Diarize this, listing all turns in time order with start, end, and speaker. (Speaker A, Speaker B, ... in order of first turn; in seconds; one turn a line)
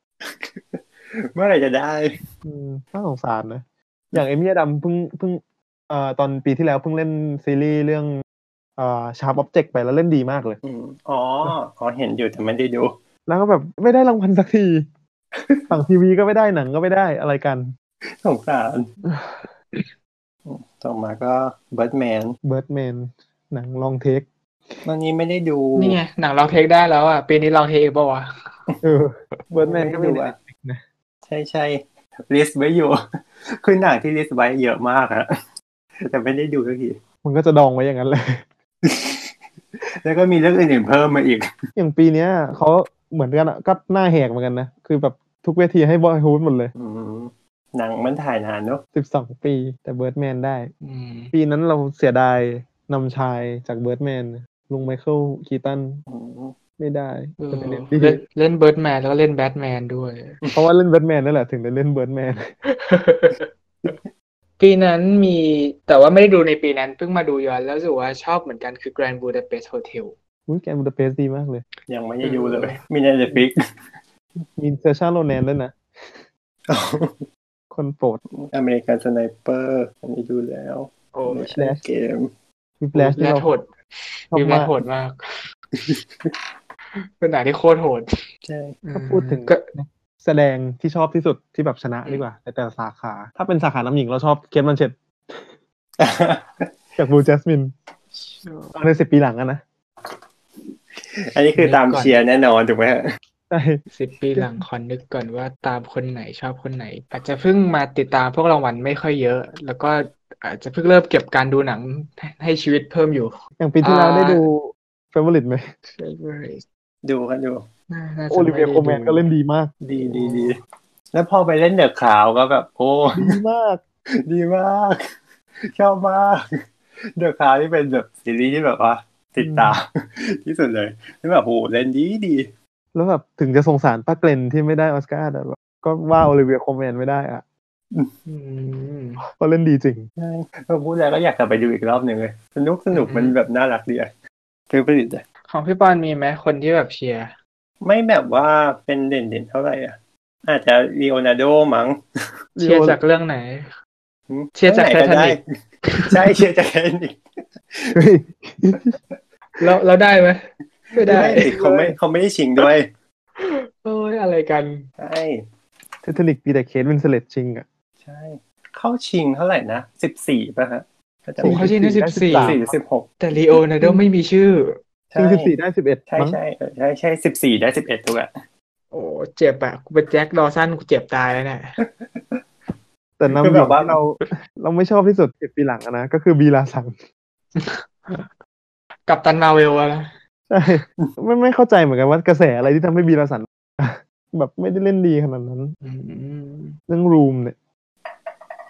Speaker A: 0.2-2.2
Speaker B: 2.4-8.2
Speaker B: 8.8-10.6
Speaker A: 10.6-12.9
Speaker B: 13.3-14.9
Speaker A: 15.3-15.7
Speaker B: 15.7-17.7
Speaker A: 18.1-18.9
Speaker B: 19.1-19.5
Speaker A: 20.5-22.4
Speaker B: 22.4-24.8
Speaker A: 24.9-26.0
Speaker C: 25.8-28.3
Speaker B: 28.8-30.8
Speaker A: 29.5-30.4
Speaker A: 31.3-35.3
Speaker A: 36.1-37.0
Speaker B: 37.2-38.5
Speaker A: 38.8-39.3
Speaker A: 39.8-41.5
Speaker B: 41.8-46.7
Speaker A: 46.8-48.8
Speaker B: 48.9-50.7
Speaker C: 50.8-51.3
Speaker B: 51.3-56.0
Speaker A: 56.1-56.6
Speaker B: 56.8-58.2
Speaker C: 57.4-60.4
Speaker B: 60.5-62.5
Speaker C: 62.7-64.0
Speaker C: 64.6-70.2
Speaker B: 70.5-71.7
Speaker A: 71.9-73.6
Speaker C: 72.2-72.8
Speaker B: 74.6-76.2
Speaker A: 76.7-77.3
Speaker B: 77.7-78.2
Speaker A: 78.3-82.3
Speaker C: 81.1-81.5
Speaker B: 81.5-81.8
Speaker B: 82.8-83.5
Speaker C: 83.0-85.4
Speaker B: 84.3-84.8
Speaker A: 85.7-86.4
Speaker C: 87.0-88.1
Speaker A: 88.4-88.8
Speaker C: 88.8-89.6
Speaker B: 88.9-95.5
Speaker A: 96.0-96.7
Speaker B: 97.0-97.7
Speaker C: 98.4-98.8
Speaker B: 98.8-99.6
Speaker A: 101.1-103.0
Speaker C: 101.6-102.2
Speaker B: 103.5-103.8
Speaker C: 103.9-114.4
Speaker B: 104.4-104.6
Speaker B: 113.6-115.7
Speaker C: 115.9-116.6
Speaker A: 117.0-117.7
Speaker C: 117.9-119.3
Speaker B: 118.3-119.7
Speaker A: 119.8-120.6
Speaker C: 120.0-120.6
Speaker A: 121.1-123.4
Speaker B: 123.1-123.8
Speaker A: 124.2-125.1
Speaker A: 125.6-126.6
Speaker A: 127.2-132.5
Speaker B: 129.4-129.8
Speaker B: 132.9-137.4
Speaker C: 138.3-139.2
Speaker B: 139.3-140.1
Speaker A: 140.2-144.1
Speaker C: 142.9-143.4
Speaker A: 144.7-145.2
Speaker C: 145.5-147.3
Speaker A: 147.8-152.0
Speaker B: 152.6-153.0
Speaker C: 152.6-153.7
Speaker A: 154.3-155.4
Speaker C: 154.6-156.3
Speaker A: 156.1-158.0
Speaker B: 157.9-159.0
Speaker C: 159.6-161.9
Speaker A: 160.9-162.9
Speaker B: 161.1-161.4
Speaker C: 163.4-164.9
Speaker A: 165.0-165.4
Speaker B: 166.0-167.7
Speaker A: 168.0-173.2
Speaker B: 171.4-172.7
Speaker C: 171.4-172.6
Speaker C: 173.2-174.8
Speaker A: 175.1-175.6
Speaker B: 175.2-176.4
Speaker A: 176.1-178.3
Speaker C: 178.9-181.8
Speaker A: 181.8-182.4
Speaker B: 183.2-187.0
Speaker A: 183.3-184.0
Speaker C: 187.6-188.3
Speaker C: 189.1-190.1
Speaker B: 190.5-195.8
Speaker C: 195.8-196.8
Speaker B: 196.9-197.6